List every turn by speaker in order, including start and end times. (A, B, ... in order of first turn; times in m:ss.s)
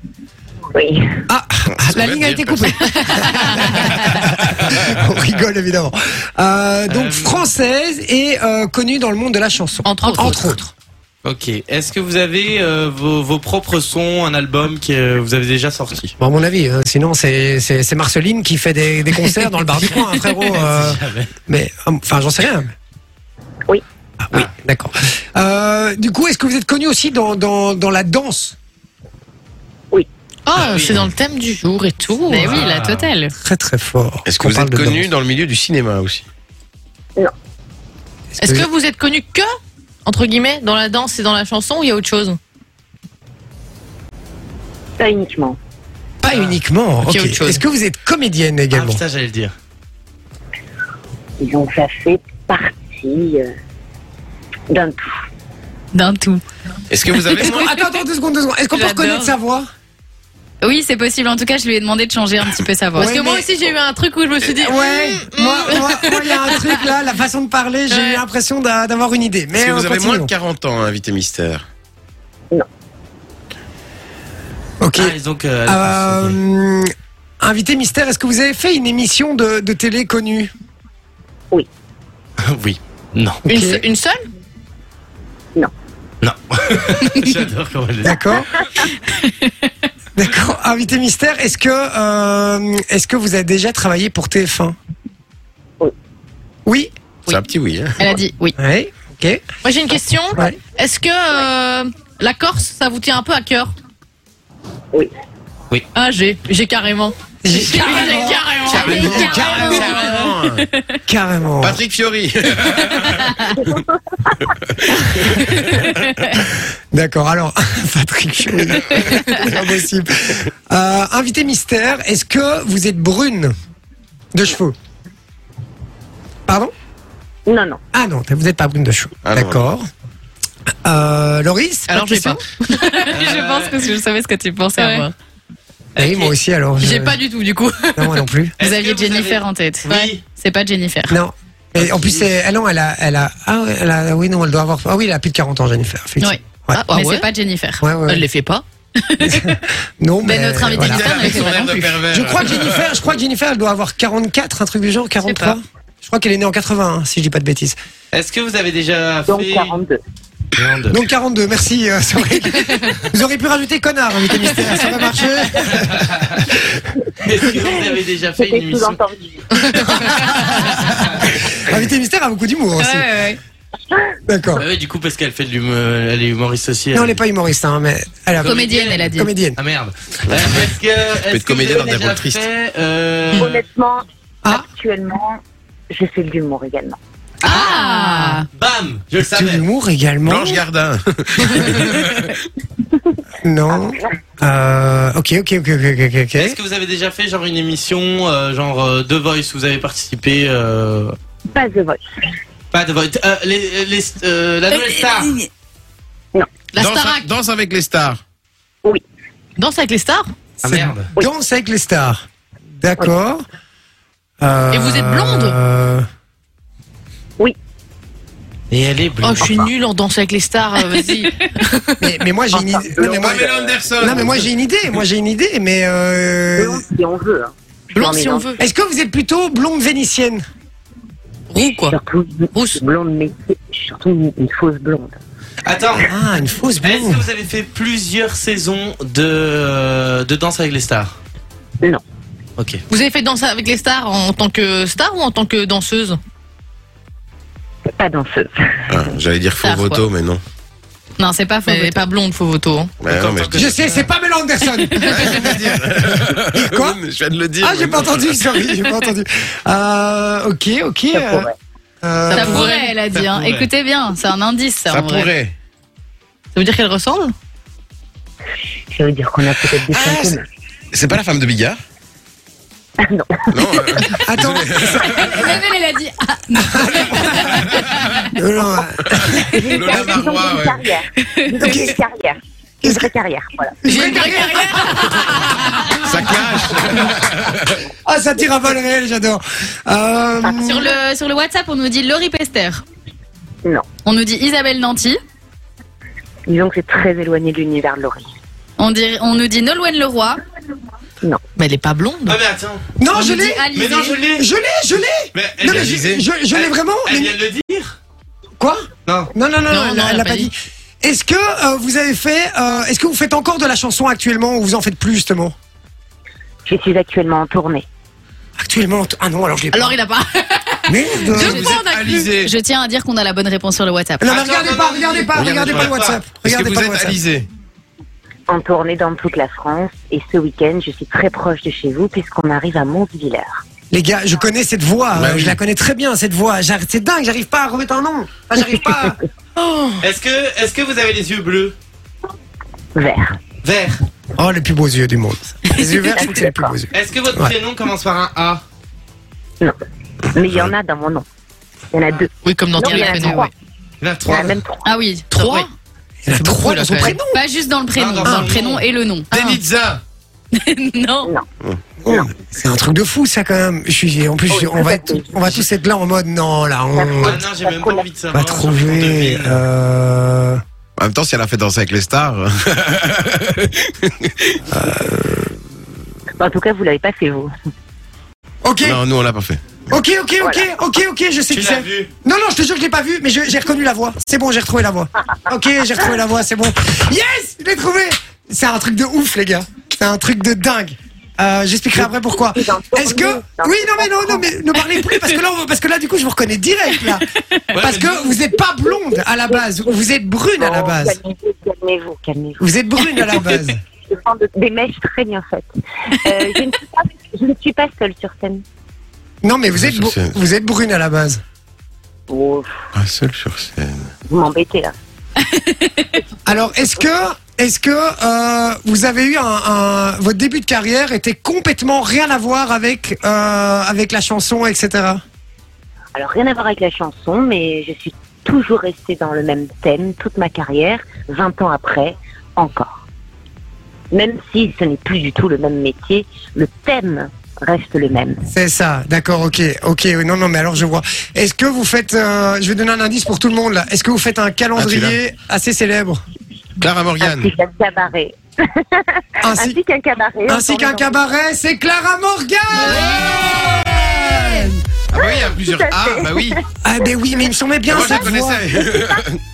0:00.7-0:01.2 A
0:01.3-0:10.7 B
0:01.7-0:02.8 C
0:03.1-0:03.7 D
0:06.9-0:07.4 E
0:09.8-0:10.6 D
0:11.2-0:16.1 E
0:16.2-0:22.7 B
0:20.3-0:21.3 E
0:24.2-0:28.6 B
0:30.5-0:32.6 D
0:30.6-0:31.1 E
0:32.3-0:33.3 F
0:32.4-0:33.1 E
0:33.4-0:35.1 B
0:34.3-0:36.2 C
0:38.4-0:38.7 B
0:38.4-0:39.5 D
0:40.0-0:42.4 D
0:45.0-0:45.6 A
0:46.2-0:49.0 B
0:46.3-0:46.6 E
0:47.1-0:47.6 D
0:48.7-0:49.5 E
0:51.4-0:53.5 A
0:54.7-0:55.1 A
0:55.9-0:56.4 F
0:56.9-0:57.7 C
0:57.4-0:59.7 B
0:58.7-0:59.3 D
1:00.6-1:03.1 F
1:03.0-1:03.5 B
1:03.0-1:06.8 D
1:04.6-1:10.3 B
1:07.9-1:08.2 D
1:09.6-1:11.6 C
1:14.8-1:20.5 B
1:15.0-1:16.4 E
1:22.4-1:23.4 E
1:23.5-1:23.8 B
1:23.5-1:24.2 D
1:26.2-1:28.4 E
1:28.0-1:28.5 B
1:30.2-1:34.8 B
1:36.7-1:36.9 B
1:37.3-1:38.1 C
1:38.0-1:38.6 F
1:38.6-1:39.4 B
1:39.6-1:43.7 D
1:45.9-1:50.2 D
1:47.4-1:50.1 B
1:48.7-1:50.3 F
1:48.7-1:50.7 C
1:51.1-1:51.8 B
1:51.6-1:53.5 C
1:53.2-1:53.5 F
1:53.6-1:53.9 A
1:54.9-1:55.8 C
1:56.0-1:56.3 F
1:56.9-2:03.5 B
2:04.3-2:04.8 B
2:06.5-2:06.7 B
2:07.5-2:07.8 A
2:07.9-2:09.9 B
2:09.2-2:09.6 C
2:10.8-2:12.4 B
2:11.9-2:13.1 D
2:12.7-2:15.1 F
2:13.1-2:13.7 E
2:14.8-2:15.1 D
2:16.0-2:17.2 B
2:16.0-2:16.3 E
2:16.8-2:18.2 D
2:18.0-2:18.5 B
2:18.6-2:20.2 E
2:18.6-2:21.2 F
2:21.1-2:26.8 B
2:21.8-2:22.2 E
2:26.7-2:27.3 D
2:26.9-2:27.8 F
2:27.8-2:28.2 B
2:28.1-2:28.6 D
2:29.0-2:29.6 F
2:29.2-2:31.1 B
2:30.2-2:31.9 F
2:30.7-2:32.9 C
2:31.1-2:31.8 D
2:32.1-2:37.8 B
2:35.3-2:35.6 D
2:38.1-2:39.8 E
2:39.3-2:40.0 A
2:40.6-2:41.0 E
2:40.9-2:46.1 B
2:45.9-2:46.3 E
2:47.2-2:49.0 E
2:47.6-2:49.4 A
2:49.9-2:53.1 B
2:50.9-2:51.2 E
2:52.8-2:53.4 F
2:54.3-2:54.7 B
2:54.6-2:57.2 E
2:56.9-2:59.6 B
2:58.4-3:03.6 E
2:58.4-2:59.3 F
3:00.3-3:00.6 C
3:01.3-3:02.4 C
3:03.4-3:05.4 A
3:05.9-3:07.0 A
3:07.4-3:08.5 F
3:07.4-3:08.4 D
3:08.5-3:09.6 E
3:09.3-3:10.6 B
3:10.3-3:12.4 C
3:13.4-3:16.6 B
3:13.7-3:14.1 A
3:16.4-3:21.2 E
3:21.5-3:22.0 A
3:22.7-3:25.4 E
3:26.7-3:27.3 D
3:26.8-3:28.2 C
3:29.6-3:30.3 D
3:30.6-3:31.1 E
3:30.6-3:32.2 B
3:32.8-3:33.4 B
3:34.4-3:36.1 B
3:34.7-3:35.6 D
3:38.7-3:39.7 E
3:39.2-3:42.0 D
3:42.0-3:46.8 B
3:42.5-3:43.7 A
3:43.0-3:44.5 C
3:46.6-3:48.5 A
3:47.9-3:48.6 D
3:48.6-3:50.4 B
3:51.5-3:52.0 D
3:51.9-3:55.2 A
3:52.5-3:52.8 D
3:55.6-3:56.1 E
3:56.0-3:57.2 B
3:56.8-4:01.2 E
4:02.6-4:02.8 E
4:02.9-4:06.2 D
4:08.0-4:09.0 A
4:08.9-4:10.4 C
4:09.6-4:10.0 F
4:11.2-4:12.0 F
4:11.7-4:12.9 D
4:13.0-4:13.7 C
4:13.0-4:14.0 E
4:13.5-4:17.0 B
4:15.0-4:18.4 C
4:17.6-4:21.5 B
4:21.1-4:21.5 A
4:22.0-4:22.7 B
4:22.3-4:25.3 F
4:22.3-4:22.9 D
4:23.1-4:23.7 E
4:24.9-4:25.5 C
4:26.6-4:27.3 D
4:28.9-4:30.5 A
4:29.9-4:30.4 B
4:30.9-4:31.8 C
4:33.0-4:33.9 A
4:33.5-4:35.5 C
4:34.1-4:35.4 B
4:35.0-4:38.3 F
4:36.6-4:37.6 B
4:38.4-4:40.2 B
4:39.2-4:40.9 C
4:39.4-4:43.8 A
4:41.4-4:41.8 F
4:41.6-4:42.0 B
4:42.8-4:43.1 B
4:43.8-4:45.6 B
4:43.9-4:46.0 D
4:46.0-4:47.8 C
4:48.1-4:51.0 B
4:50.5-4:52.8 F
4:54.0-4:55.2 F
4:56.5-4:58.2 A
4:58.8-5:00.4 F
5:01.6-5:02.4 D
5:02.3-5:02.8 E
5:03.0-5:07.3 B
5:03.1-5:04.2 F
5:03.7-5:04.5 E
5:05.3-5:08.0 E
5:05.6-5:06.2 C
5:08.6-5:15.6 B
5:09.7-5:10.5 D
5:16.7-5:17.9 A
5:18.6-5:20.0 B
5:19.7-5:22.3 D
5:20.9-5:21.7 B
5:21.3-5:22.5 C
5:21.4-5:24.3 F
5:24.2-5:27.2 B
5:24.3-5:26.2 E
5:25.3-5:27.5 C
5:28.5-5:33.6 A
5:33.9-5:39.2 B
5:35.2-5:35.6 C
5:40.0-5:41.8 E
5:43.0-5:43.4 A
5:43.6-5:44.0 E
5:44.4-5:47.5 B
5:46.1-5:46.8 A
5:46.9-5:48.6 E
5:50.4-5:51.2 A
5:51.9-5:53.5 A
5:52.4-5:53.5 D
5:52.8-5:53.4 F
5:54.0-5:54.6 E
5:54.3-5:54.9 A
5:54.8-5:55.7 F
5:55.3-5:55.7 D
5:56.2-5:57.4 B
5:56.3-5:57.2 D
5:57.3-5:59.3 F
5:58.0-5:58.8 E
5:58.2-5:58.6 B
5:59.3-6:00.0 C
5:59.3-5:59.6 D
6:00.5-6:01.3 F
6:02.0-6:07.4 B
6:04.5-6:05.6 A
6:06.9-6:08.1 A
6:07.2-6:09.6 E
6:08.3-6:10.6 B
6:11.0-6:14.6 C
6:14.7-6:15.6 B
6:16.4-6:17.5 A
6:18.6-6:19.0 B
6:18.8-6:19.8 C
6:19.9-6:37.3 B
6:20.4-6:20.7 A
6:21.5-6:22.1 E
6:32.3-6:34.5 A
6:37.7-6:38.4 E
6:37.8-6:41.2 B
6:38.9-6:40.0 A
6:40.6-6:42.6 A
6:42.6-6:43.8 B
6:44.1-6:45.7 A
6:46.2-6:48.6 A
6:49.4-6:51.4 B
6:49.8-6:50.3 C
6:52.3-6:52.8 A
6:52.9-6:54.1 C
6:54.3-6:54.9 A
6:55.4-6:56.1 F
6:56.4-7:05.2 B
7:06.2-7:13.0 A
7:14.1-7:18.4 A
7:18.5-7:26.2 B
7:24.8-7:25.2 C
7:26.8-7:27.5 C
7:27.2-7:31.2 A
7:29.4-7:29.8 B
7:30.5-7:34.8 B
7:35.1-7:36.6 C
7:35.2-7:37.4 A
7:36.8-7:38.7 B
7:37.9-7:39.4 C
7:38.0-7:39.2 A